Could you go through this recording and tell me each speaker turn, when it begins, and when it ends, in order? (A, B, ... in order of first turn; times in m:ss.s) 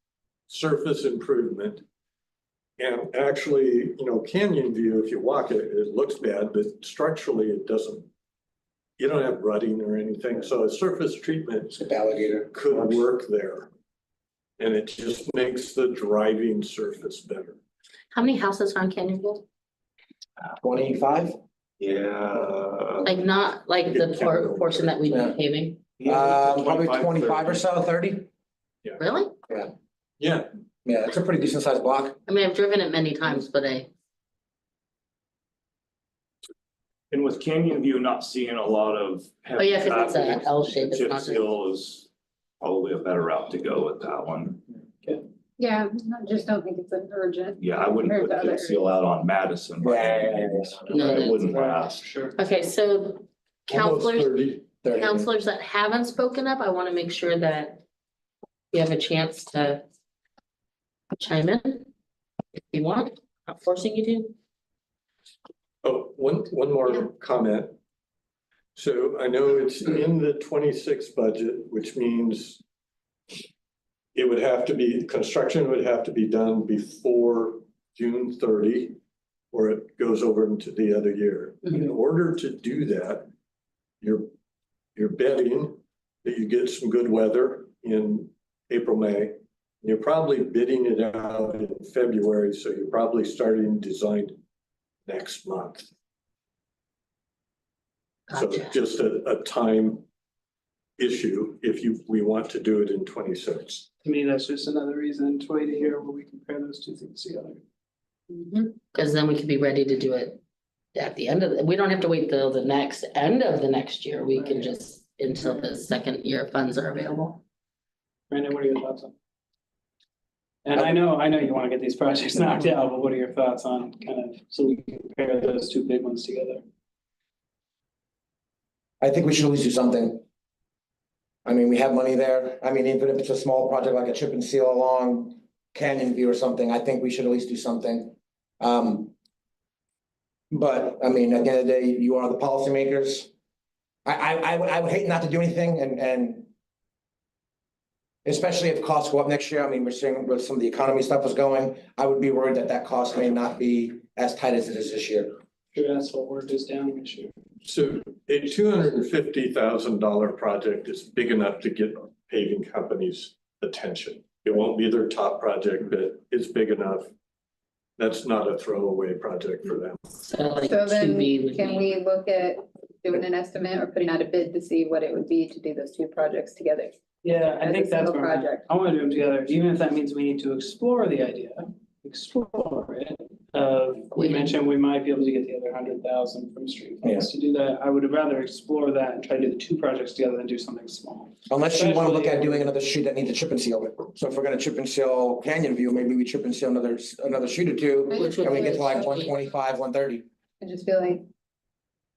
0:00.5-0:01.8 A
0:02.8-0:08.1 A
0:09.0-0:11.8 A
0:11.8-0:13.0 B
0:12.5-0:13.7 A
0:14.6-0:17.6 A
0:18.1-0:19.4 C
0:20.6-0:21.4 B
0:21.8-0:23.1 D
0:23.0-0:25.8 C
0:23.8-0:25.0 A
0:25.1-0:25.4 B
0:26.0-0:27.6 D
0:26.0-0:28.3 B
0:29.0-0:29.3 C
0:30.2-0:30.5 A
0:30.8-0:32.2 B
0:32.3-0:33.9 C
0:37.1-0:42.1 D
0:39.6-0:41.5 C
0:42.6-0:44.6 D
0:45.6-0:48.9 E
0:47.6-0:52.1 D
0:49.8-0:51.1 B
0:50.9-0:51.5 C
0:51.5-0:52.3 F
0:52.4-0:57.8 C
0:53.7-0:54.7 A
0:54.8-0:55.2 B
0:58.7-0:59.8 C
1:01.1-1:01.9 C
1:02.7-1:04.3 C
1:05.8-1:07.8 A
1:08.7-1:12.6 A
1:14.1-1:19.0 A
1:19.5-1:23.3 A
1:24.0-1:24.3 A
1:25.0-1:34.4 A
1:35.0-1:35.9 A
1:38.3-1:38.7 C
1:38.3-1:40.0 A
1:41.0-1:43.9 A
1:44.0-1:47.6 F
1:48.3-1:48.7 E
1:48.7-1:50.4 C
1:50.9-1:57.4 C
1:54.4-1:54.7 F
1:58.3-1:59.1 F
2:00.6-2:06.6 F
2:09.0-2:10.2 B
2:11.4-2:19.1 B
2:20.5-2:23.3 B
2:24.0-2:26.5 B
2:28.2-2:35.4 B
2:35.7-2:37.3 F
2:37.6-2:47.1 A
2:48.0-2:50.0 A
2:50.1-2:51.9 C
2:50.7-2:58.7 E
2:57.2-3:12.7 F
3:04.1-3:04.5 C
3:11.5-3:20.2 B
3:18.1-3:19.3 E
3:18.1-3:19.3 C
3:20.6-3:21.2 E